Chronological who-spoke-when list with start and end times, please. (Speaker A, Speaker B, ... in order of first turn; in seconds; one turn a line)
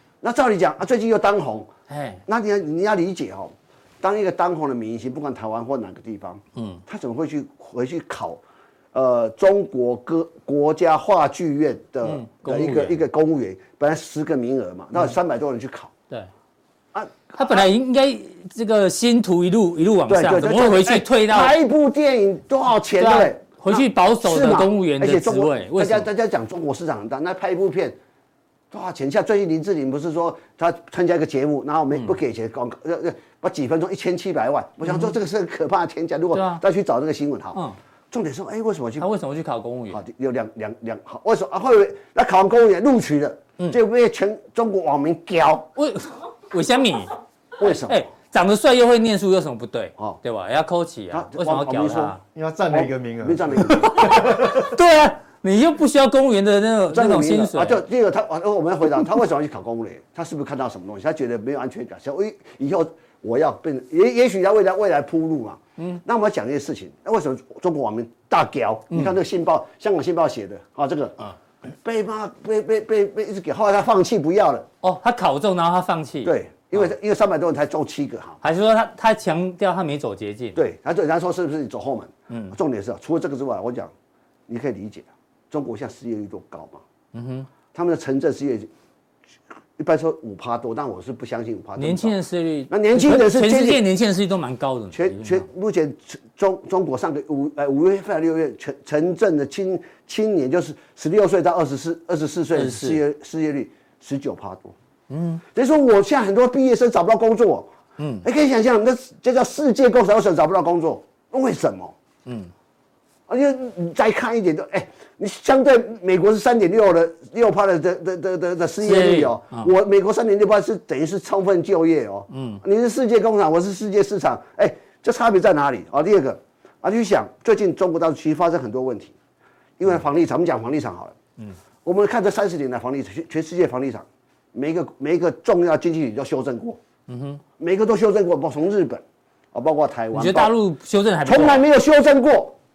Speaker A: 0.2-1.7
Speaker B: 1.9-2.2
Speaker A: 2.3-8.4
Speaker B: 6.5-6.8
Speaker A: 8.9-15.9
Speaker B: 12.0-13.0
Speaker A: 16.9-17.7
Speaker B: 17.3-21.6
Speaker A: 20.1-28.0
Speaker B: 22.9-26.1
Speaker A: 28.7-37.6
Speaker B: 34.8-35.1
Speaker B: 36.3-36.6
Speaker A: 38.1-39.1
Speaker B: 39.0-40.0
Speaker A: 39.9-45.7
Speaker B: 45.7-52.2
Speaker A: 47.6-48.0
Speaker A: 51.1-52.1
Speaker C: 52.3-54.4
Speaker A: 52.7-54.7
Speaker B: 53.8-57.8
Speaker A: 56.9-74.7
Speaker B: 74.8-76.9
Speaker A: 76.2-78.4
Speaker B: 78.4-80.6
Speaker A: 80.5-83.9
Speaker B: 82.3-82.5
Speaker A: 84.5-86.8
Speaker B: 87.1-87.5
Speaker A: 87.7-88.7
Speaker A: 89.8-92.2
Speaker B: 91.8-95.5
Speaker A: 92.7-93.8
Speaker A: 94.9-104.7
Speaker B: 102.5-103.0
Speaker B: 105.1-105.4
Speaker A: 105.5-107.7
Speaker B: 108.0-108.2
Speaker A: 108.2-111.9
Speaker B: 112.2-112.5
Speaker A: 113.3-129.1
Speaker B: 118.8-119.7
Speaker B: 122.3-122.6
Speaker A: 129.8-131.2
Speaker A: 131.8-136.8
Speaker B: 137.1-137.4
Speaker A: 137.6-140.6
Speaker B: 140.1-141.7
Speaker A: 141.2-142.6